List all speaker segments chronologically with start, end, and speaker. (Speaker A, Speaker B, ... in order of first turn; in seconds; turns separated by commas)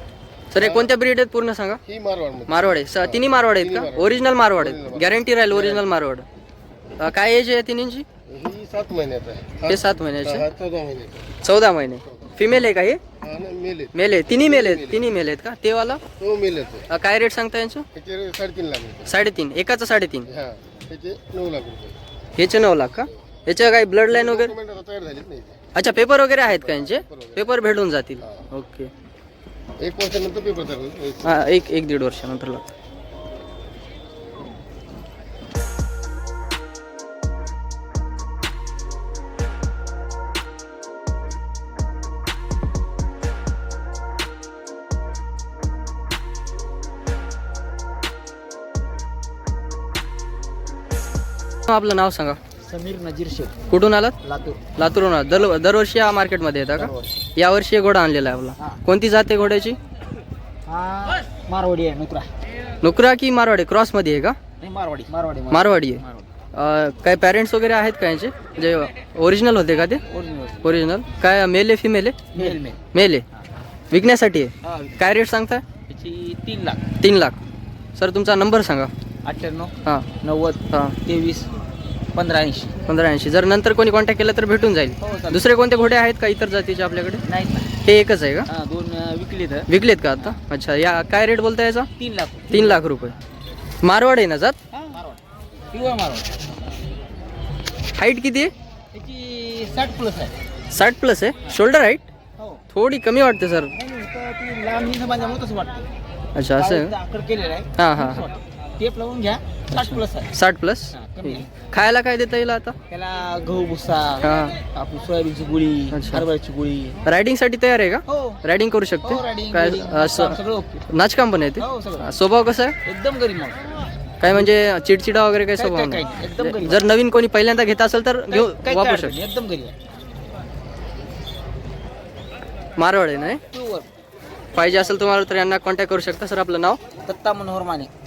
Speaker A: 0.5-1.8, Speaker B: 0.6-0.9, Speaker B: 1.9-5.8, Speaker A: 2.5-6.2, Speaker A: 7.0-8.1, Speaker B: 8.3-11.3, Speaker A: 9.7-10.5, Speaker A: 11.4-13.0, Speaker B: 13.2-15.1, Speaker A: 13.9-16.0, Speaker B: 16.2-16.9, Speaker A: 16.9-17.9, Speaker B: 17.9-19.1, Speaker A: 19.1-20.3, Speaker B: 20.3-21.9, Speaker A: 22.4-24.5, Speaker B: 24.1-25.6, Speaker A: 25.8-28.9, Speaker B: 26.5-27.5, Speaker B: 29.8-31.3, Speaker A: 31.2-32.6, Speaker A: 51.7-52.4, Speaker C: 52.6-53.5, Speaker A: 53.7-54.2, Speaker C: 54.2-54.6, Speaker A: 54.8-59.8, Speaker C: 56.8-57.1, Speaker C: 60.7-62.3, Speaker A: 62.8-64.4, Speaker C: 64.6-66.3, Speaker A: 65.5-66.0, Speaker A: 66.5-70.0, Speaker C: 70.1-70.6, Speaker A: 70.6-73.2, Speaker C: 72.3-72.8, Speaker A: 73.9-75.6, Speaker C: 74.7-75.0, Speaker C: 75.9-76.8, Speaker A: 77.0-77.4, Speaker A: 78.0-78.9, Speaker C: 79.2-81.5, Speaker A: 80.7-81.0, Speaker C: 82.1-82.7, Speaker A: 82.9-87.2, Speaker C: 85.0-85.4, Speaker C: 87.3-87.7, Speaker A: 87.8-88.5, Speaker C: 88.5-89.7, Speaker A: 89.7-91.9, Speaker C: 92.0-92.8, Speaker A: 92.5-93.2, Speaker A: 93.8-94.6, Speaker C: 94.7-95.2, Speaker C: 95.7-96.4, Speaker A: 98.0-98.5, Speaker C: 98.9-100.3, Speaker A: 100.7-102.1, Speaker A: 102.7-103.7, Speaker C: 103.8-105.9, Speaker A: 106.3-106.9, Speaker C: 106.5-110.3, Speaker A: 107.8-108.2, Speaker A: 109.7-112.8, Speaker C: 110.9-111.5, Speaker C: 112.9-117.0, Speaker A: 114.2-114.5, Speaker A: 115.9-116.3, Speaker A: 117.0-120.4, Speaker C: 118.1-118.4, Speaker C: 119.0-120.8, Speaker A: 120.9-122.8, Speaker C: 121.6-122.1, Speaker C: 122.8-123.6, Speaker A: 124.2-129.2, Speaker C: 125.6-126.8, Speaker C: 128.3-129.8, Speaker A: 132.8-133.4, Speaker C: 133.5-133.9, Speaker A: 134.6-136.8, Speaker C: 137.1-137.9